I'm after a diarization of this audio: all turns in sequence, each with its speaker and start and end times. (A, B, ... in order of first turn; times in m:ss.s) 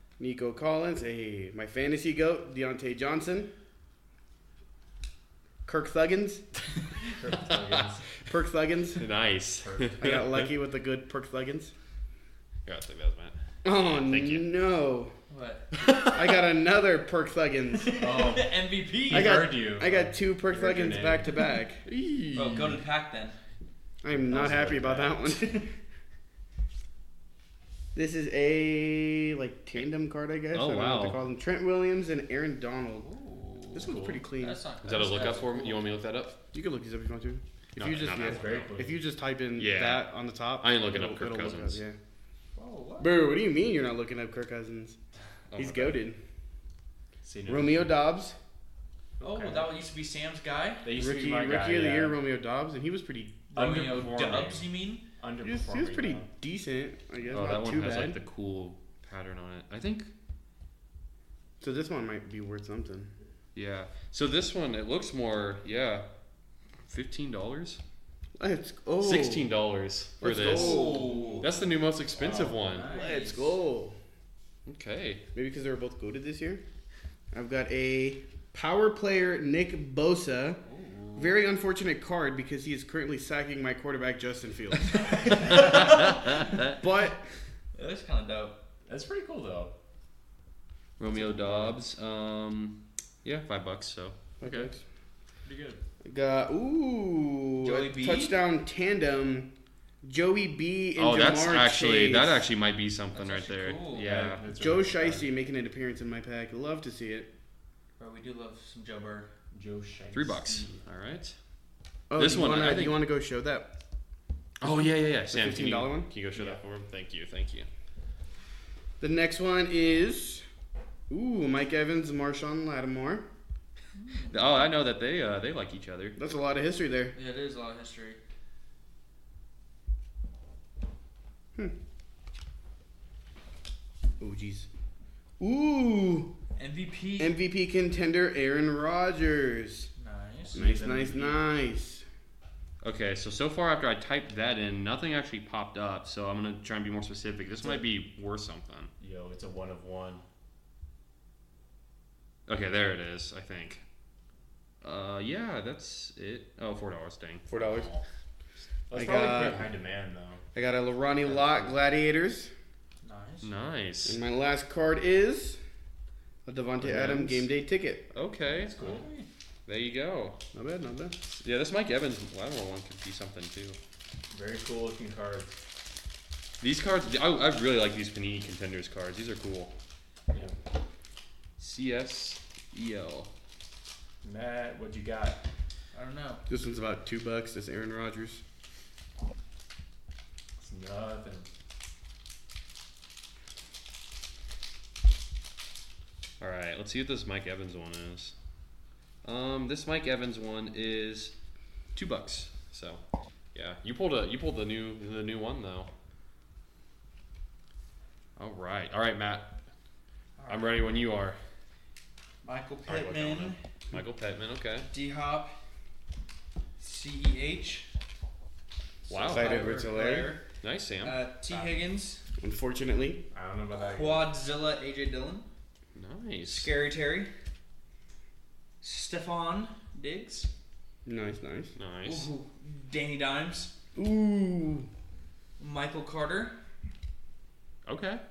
0:00.2-0:03.5 A
0:05.6-0:06.4 A
0:07.2-0:08.0 B
0:08.3-0:09.1 A
0:09.0-0:10.5 C
0:09.6-0:10.0 B
0:10.0-0:11.7 A
0:12.7-0:14.5 C
0:13.6-0:15.1 A
0:15.3-0:15.7 D
0:15.8-0:16.2 C
0:16.0-0:18.0 A
0:17.8-0:19.5 D
0:18.0-0:21.4 B
0:19.1-0:21.9 A
0:21.9-0:22.6 C
0:22.3-0:23.4 D
0:24.0-0:25.7 A
0:24.2-0:25.4 B
0:28.0-0:33.1 A
0:30.5-0:31.2 C
0:33.0-0:35.9 D
0:33.7-0:34.6 A
0:33.8-0:34.2 B
0:34.8-0:36.4 C
0:36.5-0:42.0 A
0:37.8-0:38.8 C
0:38.1-0:39.0 B
0:39.6-0:40.1 C
0:40.6-0:41.8 C
0:42.6-0:43.2 D
0:43.0-0:45.0 A
0:45.5-0:46.0 C
0:45.6-0:46.2 A
0:47.2-0:47.9 B
0:47.5-0:48.4 A
0:49.2-0:49.7 B
0:49.2-0:50.9 D
0:50.8-0:52.2 B
0:51.0-0:53.5 A
0:53.5-0:54.7 B
0:53.5-0:55.1 D
0:55.2-0:56.3 B
0:55.4-0:58.2 A
0:57.3-1:00.1 C
1:01.6-1:03.1 A
1:03.6-1:06.1 C
1:06.9-1:07.8 C
1:08.4-1:09.6 A
1:09.0-1:12.9 C
1:10.2-1:11.4 A
1:10.4-1:11.5 D
1:12.2-1:12.7 B
1:12.7-1:13.5 D
1:12.8-1:14.0 A
1:14.7-1:15.2 C
1:15.3-1:16.6 A
1:17.3-1:20.6 A
1:20.7-1:21.2 D
1:21.2-1:25.9 A
1:25.1-1:26.2 D
1:25.5-1:26.8 C
1:26.7-1:27.2 A
1:27.7-1:28.6 D
1:28.9-1:29.7 B
1:31.0-1:34.6 C
1:31.1-1:31.8 B
1:34.4-1:34.8 A
1:35.4-1:35.8 B
1:36.0-1:39.5 A
1:37.6-1:38.4 D
1:40.0-1:42.5 A
1:41.0-1:44.4 C
1:43.1-1:44.2 D
1:44.0-1:45.3 B
1:44.5-1:47.3 A
1:48.0-1:49.3 D
1:49.5-1:50.8 B
1:50.1-1:51.4 C
1:52.1-1:53.7 A
1:52.2-1:53.0 C
1:54.6-1:57.7 C
1:55.3-1:56.1 A
1:56.4-1:56.6 B
1:59.0-2:00.4 A
2:01.1-2:03.2 A
2:04.0-2:04.4 D
2:04.3-2:06.2 C
2:06.2-2:07.1 A
2:07.1-2:08.2 D
2:14.2-2:14.7 A
2:15.4-2:16.3 A
2:16.6-2:17.4 D
2:17.2-2:19.9 A
2:20.0-2:20.6 D
2:20.5-2:21.4 B
2:20.5-2:22.0 A
2:22.8-2:28.9 C
2:29.0-2:30.2 B
2:32.5-2:33.8 C
2:34.8-2:38.0 C
2:37.5-2:37.9 A
2:38.9-2:40.4 B
2:38.9-2:39.7 A
2:40.6-2:42.5 A
2:43.0-2:43.5 D
2:43.4-2:44.2 C
2:44.1-2:45.6 A
2:46.5-2:48.1 A
2:46.8-2:47.5 C
2:48.1-2:48.7 C
2:48.5-2:49.1 B
2:48.8-2:49.3 D
2:49.7-2:50.4 C
2:50.5-2:51.2 A
2:51.3-2:53.8 C
2:54.3-2:55.5 B
2:56.6-2:59.7 C
3:00.3-3:00.6 B
3:01.6-3:03.3 C
3:04.2-3:05.4 B
3:05.9-3:06.4 D
3:06.5-3:08.4 A
3:10.6-3:11.5 B
3:16.4-3:18.3 C
3:19.2-3:21.3 C
3:22.0-3:23.0 C
3:23.5-3:25.9 C
3:28.4-3:29.6 C
3:30.4-3:30.9 D
3:30.5-3:31.4 C
3:32.4-3:33.6 D
3:32.9-3:34.9 C
3:34.9-3:35.5 D
3:36.8-3:37.9 D
3:39.1-3:39.6 C
3:39.1-3:40.4 D
3:39.3-3:40.4 A
3:40.6-3:41.2 C
3:41.0-3:42.2 D
3:41.5-3:41.8 B
3:42.4-3:43.2 A
3:43.3-3:44.3 B
3:43.7-3:45.5 D
3:46.0-3:46.7 C
3:46.5-3:47.3 D
3:48.8-3:50.5 D
3:51.0-3:51.8 A
3:51.8-3:52.3 C
3:52.0-3:53.7 D
3:54.0-3:54.9 A
3:55.6-3:56.6 D
3:57.9-3:58.2 C